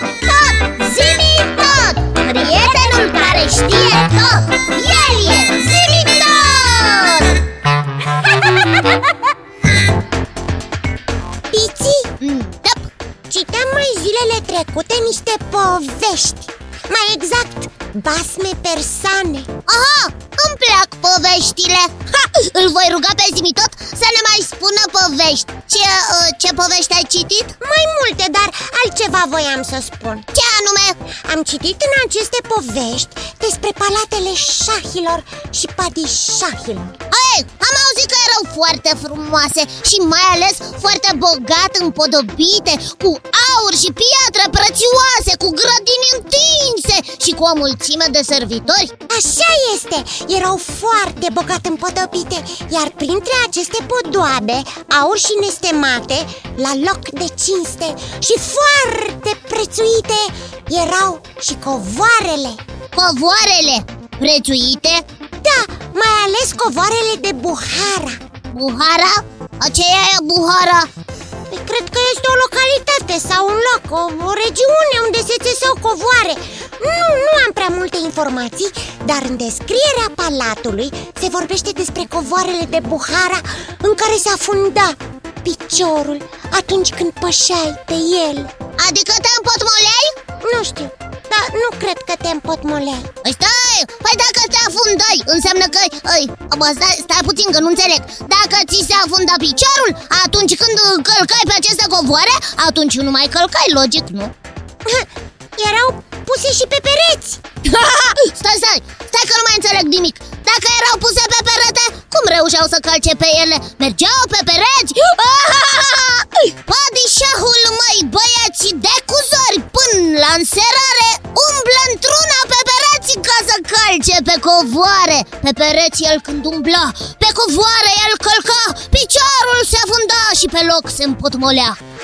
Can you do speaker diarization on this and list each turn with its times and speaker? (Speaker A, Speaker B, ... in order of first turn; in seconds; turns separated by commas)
Speaker A: 0.2-7.3, Speaker B: 11.5-12.1, Speaker A: 12.2-12.9, Speaker B: 13.3-19.5, Speaker A: 19.7-27.5, Speaker B: 27.6-30.3, Speaker A: 30.3-31.0, Speaker B: 31.2-37.0, Speaker A: 37.1-48.9, Speaker B: 49.1-62.6, Speaker A: 62.9-65.0, Speaker B: 65.4-68.2, Speaker A: 68.5-70.9, Speaker B: 71.5-88.5, Speaker A: 88.8-90.1, Speaker B: 90.4-93.1, Speaker A: 93.2-104.3, Speaker B: 104.8-107.4, Speaker A: 107.6-131.8